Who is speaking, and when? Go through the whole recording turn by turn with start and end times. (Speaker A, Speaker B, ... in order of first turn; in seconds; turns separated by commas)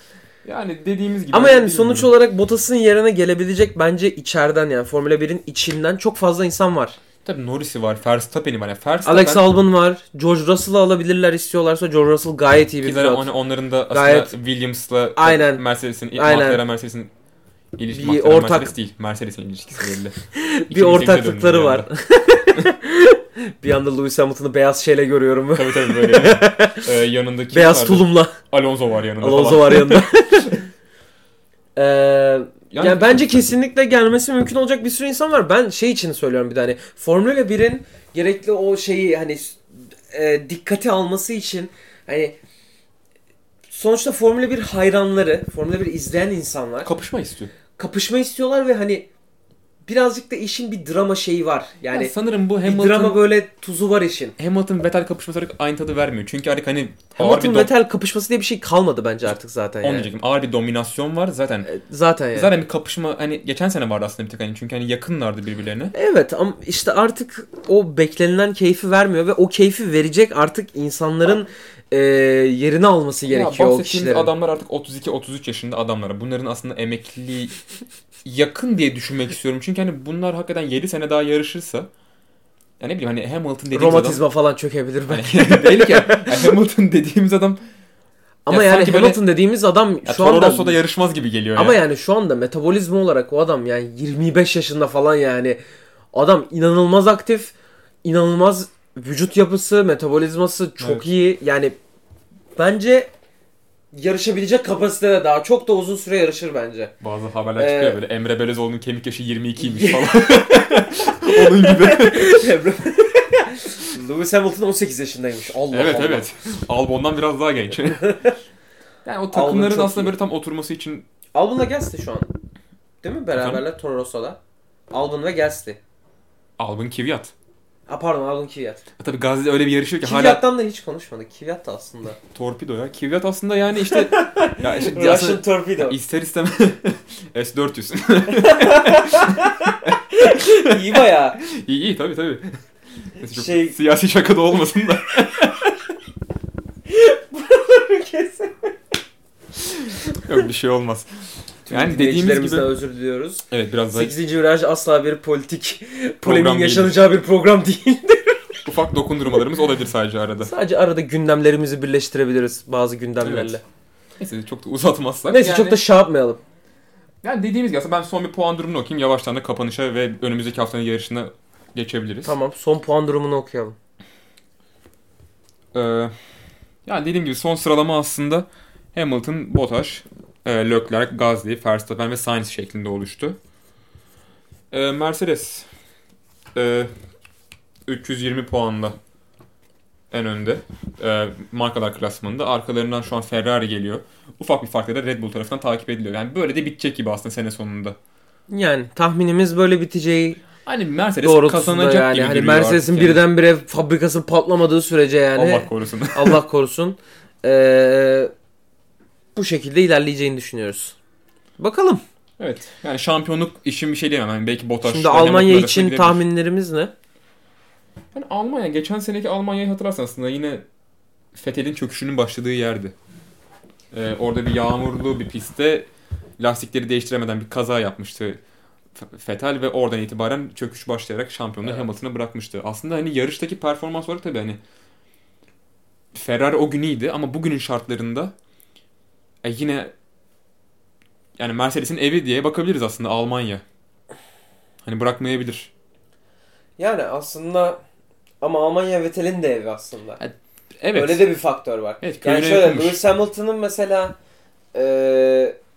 Speaker A: 0.4-2.1, Speaker B: 1.3-7.0, Speaker A: 7.2-9.5, Speaker B: 9.1-13.3, Speaker A: 12.8-17.1, Speaker B: 13.9-14.3, Speaker B: 15.2-15.6, Speaker B: 16.1-16.6, Speaker A: 17.8-20.1, Speaker B: 17.9-18.7, Speaker B: 20.3-26.9, Speaker A: 20.7-21.9, Speaker A: 25.6-30.1, Speaker B: 27.5-28.4, Speaker B: 29.2-30.7, Speaker B: 31.8-42.4, Speaker A: 32.7-33.2, Speaker B: 43.7-46.9, Speaker A: 46.8-47.5, Speaker B: 47.8-49.1, Speaker B: 49.9-52.1, Speaker A: 51.9-53.2, Speaker B: 52.6-54.4, Speaker A: 54.4-57.7, Speaker B: 57.2-60.1, Speaker A: 59.8-61.7, Speaker B: 61.6-62.5, Speaker A: 62.3-65.9, Speaker B: 65.9-74.3, Speaker A: 73.3-77.5, Speaker A: 78.2-81.9, Speaker A: 82.8-84.2, Speaker B: 83.7-86.6, Speaker A: 85.1-87.6, Speaker B: 88.5-90.8, Speaker A: 88.5-89.2, Speaker A: 90.0-91.8, Speaker B: 91.6-95.6, Speaker B: 96.1-101.8, Speaker A: 100.8-101.1, Speaker B: 102.6-103.1, Speaker B: 103.9-106.9, Speaker A: 107.0-112.5, Speaker B: 107.6-108.0, Speaker B: 109.6-116.3, Speaker A: 115.7-118.1, Speaker B: 118.0-118.4, Speaker A: 119.0-121.1, Speaker B: 119.3-120.1, Speaker B: 121.3-122.3, Speaker B: 123.0-124.4, Speaker A: 123.3-123.6, Speaker B: 124.9-125.8, Speaker A: 126.6-127.3, Speaker B: 127.9-128.8, Speaker A: 129.0-130.4, Speaker B: 130.0-132.2, Speaker A: 132.3-142.6, Speaker B: 133.8-136.0, Speaker B: 138.3-141.4, Speaker A: 143.2-145.8, Speaker B: 143.3-143.8, Speaker B: 146.9-148.7, Speaker A: 150.1-151.1, Speaker B: 151.7-158.6, Speaker A: 151.7-152.7, Speaker A: 153.5-154.1, Speaker A: 156.2-157.0, Speaker A: 158.6-160.5, Speaker B: 160.4-163.6, Speaker A: 163.2-163.6, Speaker A: 164.2-165.8, Speaker B: 165.3-166.4, Speaker A: 167.2-172.3, Speaker B: 172.2-173.8, Speaker A: 175.7-176.1, Speaker A: 176.8-183.4, Speaker A: 184.7-185.7, Speaker A: 186.6-186.9, Speaker A: 187.9-188.9, Speaker A: 190.1-198.0, Speaker B: 198.5-200.4, Speaker A: 200.6-203.2, Speaker B: 201.2-208.3, Speaker A: 205.3-206.4, Speaker B: 209.3-210.9, Speaker B: 211.6-212.0, Speaker A: 212.4-216.2, Speaker B: 214.8-216.9, Speaker A: 218.1-220.6, Speaker A: 221.3-222.9, Speaker A: 223.9-228.4, Speaker A: 228.9-234.6, Speaker A: 236.1-238.3, Speaker A: 239.4-239.9, Speaker A: 241.4-243.6, Speaker A: 244.8-245.7, Speaker B: 246.8-247.8, Speaker B: 248.4-250.2, Speaker A: 250.2-251.3, Speaker B: 250.9-254.2, Speaker A: 252.0-253.0, Speaker B: 254.7-255.6